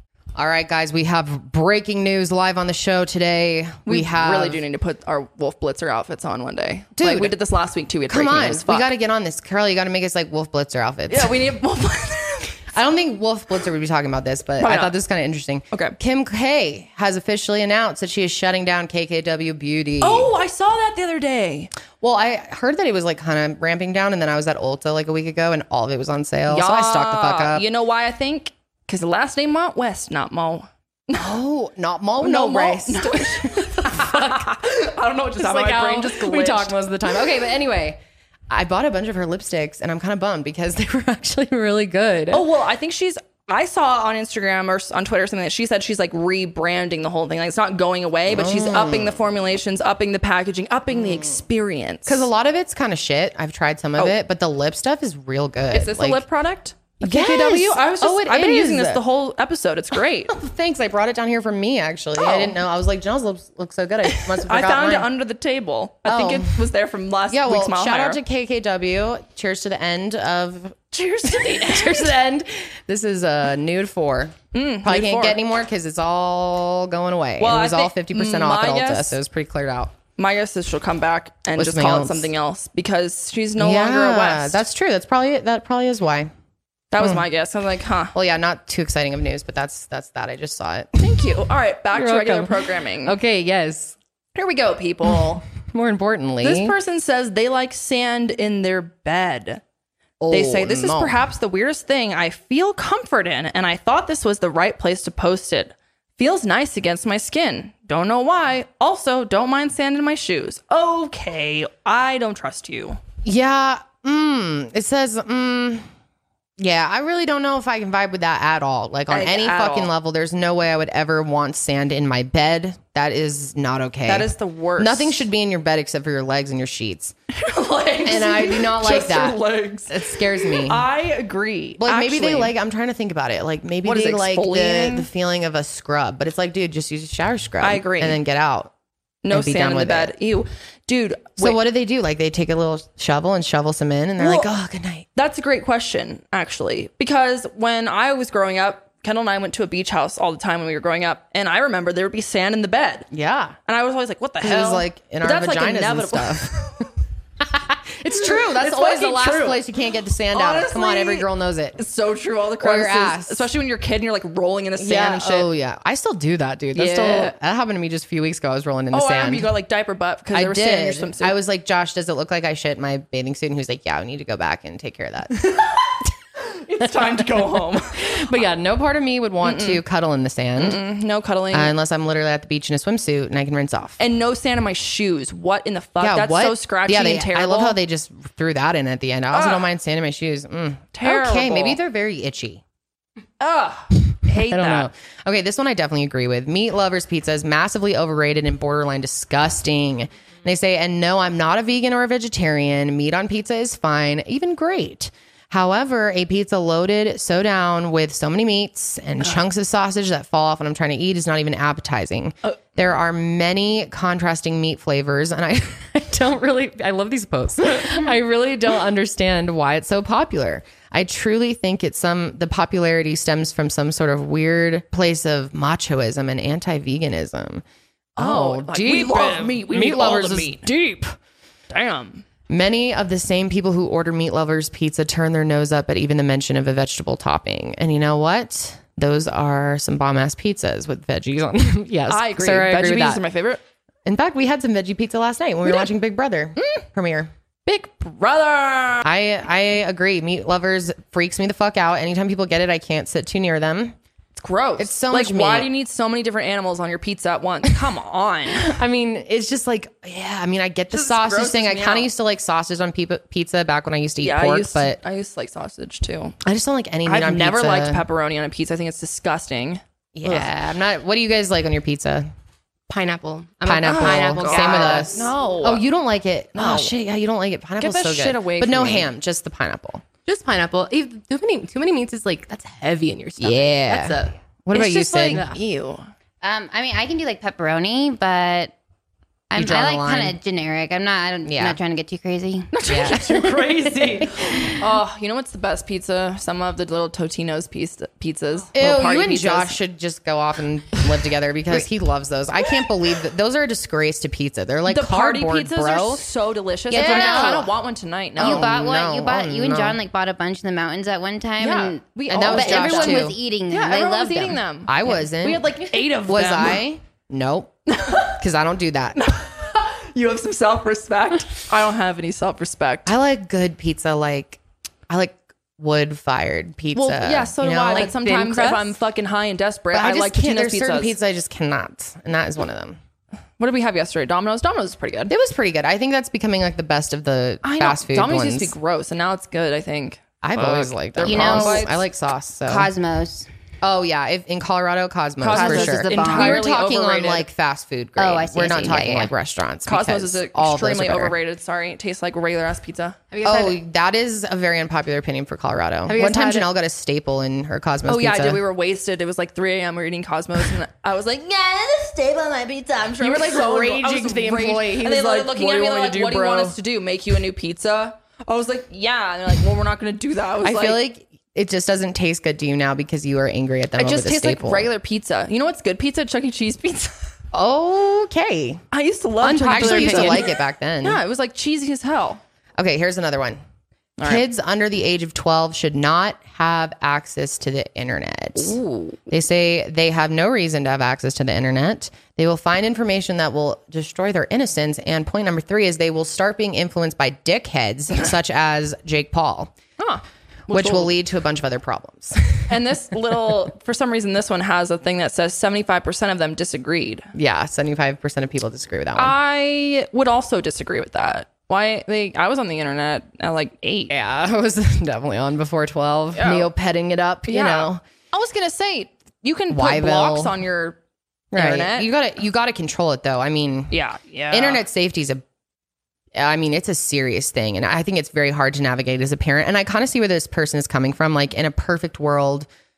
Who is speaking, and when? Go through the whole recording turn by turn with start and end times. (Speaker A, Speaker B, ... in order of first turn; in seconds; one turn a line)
Speaker A: 0.3-4.6
Speaker B: 3.9-8.8
Speaker A: 7.0-7.3
Speaker A: 8.1-11.4
Speaker B: 11.1-12.7
Speaker A: 12.7-20.3
Speaker B: 14.6-14.9
Speaker B: 15.7-15.9
Speaker B: 20.0-21.7
Speaker A: 22.0-27.6
Speaker B: 26.5-31.3
Speaker A: 31.1-34.5
Speaker B: 32.2-36.8
Speaker A: 35.4-38.0
Speaker A: 38.5-42.4
Speaker B: 42.3-52.3
Speaker A: 48.3-49.2
Speaker A: 50.9-51.4
Speaker A: 52.0-56.2
Speaker B: 55.7-60.3
Speaker A: 57.0-59.0
Speaker A: 60.3-65.1
Speaker B: 62.2-62.5
Speaker B: 64.1-68.2
Speaker A: 66.0-66.6
Speaker A: 67.3-79.9
Speaker B: 70.9-72.1
Speaker B: 74.5-75.4
Speaker B: 77.4-79.2
Speaker B: 80.2-84.6
Speaker A: 81.5-82.3
Speaker A: 83.6-86.3
Speaker B: 86.9-88.1
Speaker A: 88.1-91.0
Speaker B: 91.0-93.2
Speaker A: 91.9-94.0
Speaker B: 94.3-95.4
Speaker A: 95.1-96.8
Speaker B: 96.4-99.6
Speaker A: 100.2-101.2
Speaker B: 100.3-113.0
Speaker A: 113.2-115.9
Speaker A: 116.6-127.1
Speaker B: 119.1-119.9
Speaker B: 124.0-125.2
Speaker B: 127.3-132.5
Speaker A: 128.0-130.8
Speaker A: 131.8-138.7
Speaker B: 133.8-135.1
Speaker B: 137.6-138.2
Speaker B: 139.2-141.6
Speaker A: 139.3-140.1
Speaker A: 141.4-145.1
Speaker B: 144.2-144.5
Speaker B: 145.2-153.1
Speaker A: 153.1-153.6
Speaker B: 153.7-156.9
Speaker A: 154.4-156.6
Speaker A: 157.4-161.8
Speaker B: 158.1-159.6
Speaker B: 160.3-165.5
Speaker A: 162.6-163.5
Speaker A: 164.8-169.5
Speaker B: 166.7-167.3
Speaker B: 168.9-171.4
Speaker A: 170.3-175.6
Speaker B: 175.3-178.4
Speaker A: 176.8-180.8
Speaker B: 179.4-179.8
Speaker B: 180.6-181.7
Speaker A: 181.5-184.0
Speaker B: 184.0-187.8
Speaker A: 186.0-192.6
Speaker B: 189.3-189.7
Speaker B: 190.9-191.8
Speaker B: 193.4-194.9
Speaker A: 194.3-227.6
Speaker A: 228.2-231.0
Speaker B: 228.2-231.0
Speaker B: 231.7-232.2
Speaker A: 232.5-243.2
Speaker B: 242.1-243.6
Speaker A: 244.0-247.3
Speaker B: 246.6-246.8
Speaker B: 247.7-249.1
Speaker A: 249.0-253.9
Speaker B: 254.3-258.7
Speaker A: 254.8-255.7
Speaker A: 258.5-265.0
Speaker B: 260.9-262.1
Speaker B: 264.2-266.3
Speaker A: 266.4-268.0
Speaker B: 267.0-270.5
Speaker A: 270.1-272.3
Speaker C: 272.9-275.3
Speaker A: 273.6-280.0
Speaker B: 273.8-275.8
Speaker B: 276.6-276.9
Speaker B: 277.8-279.1
Speaker C: 280.2-284.4
Speaker A: 283.4-285.4
Speaker B: 284.7-286.1
Speaker C: 285.3-285.6
Speaker D: 286.4-288.7
Speaker D: 289.5-292.7
Speaker A: 289.5-290.4
Speaker A: 291.4-291.8
Speaker B: 292.7-299.7
Speaker A: 292.9-294.7
Speaker A: 298.7-306.2
Speaker B: 304.9-308.7
Speaker A: 306.9-307.7
Speaker D: 306.9-307.7
Speaker A: 308.4-310.0
Speaker D: 308.4-314.6
Speaker B: 311.6-316.8
Speaker A: 312.3-313.4
Speaker A: 314.9-319.2
Speaker B: 317.9-318.4
Speaker B: 319.2-323.1
Speaker A: 323.1-328.6
Speaker B: 326.9-331.1
Speaker C: 327.9-328.8
Speaker A: 329.9-333.0
Speaker B: 333.6-335.3
Speaker A: 335.3-338.7
Speaker B: 337.6-342.0
Speaker A: 340.4-342.9
Speaker D: 341.2-341.9
Speaker D: 342.7-343.5
Speaker A: 343.8-351.3
Speaker B: 345.4-347.4
Speaker D: 345.5-346.6
Speaker D: 348.2-349.3
Speaker B: 349.9-353.2
Speaker C: 353.3-353.8
Speaker A: 353.4-358.6
Speaker C: 356.1-356.7
Speaker B: 358.1-371.0
Speaker A: 363.2-366.8
Speaker A: 370.6-374.9
Speaker B: 374.0-377.1
Speaker A: 377.5-378.8
Speaker B: 378.9-380.5
Speaker A: 379.4-381.2
Speaker C: 379.6-380.4
Speaker B: 381.0-382.4
Speaker A: 382.8-383.6
Speaker A: 384.2-388.8
Speaker B: 388.6-389.2
Speaker A: 389.3-399.7
Speaker B: 400.0-401.1
Speaker A: 400.7-402.7
Speaker B: 402.7-407.3
Speaker A: 407.3-409.3
Speaker B: 409.1-414.1
Speaker A: 414.1-418.0
Speaker B: 416.3-416.7
Speaker B: 417.5-421.0
Speaker A: 419.7-420.5
Speaker A: 421.5-423.9
Speaker B: 421.5-422.1
Speaker B: 423.9-424.8
Speaker A: 424.5-425.4
Speaker A: 426.3-432.7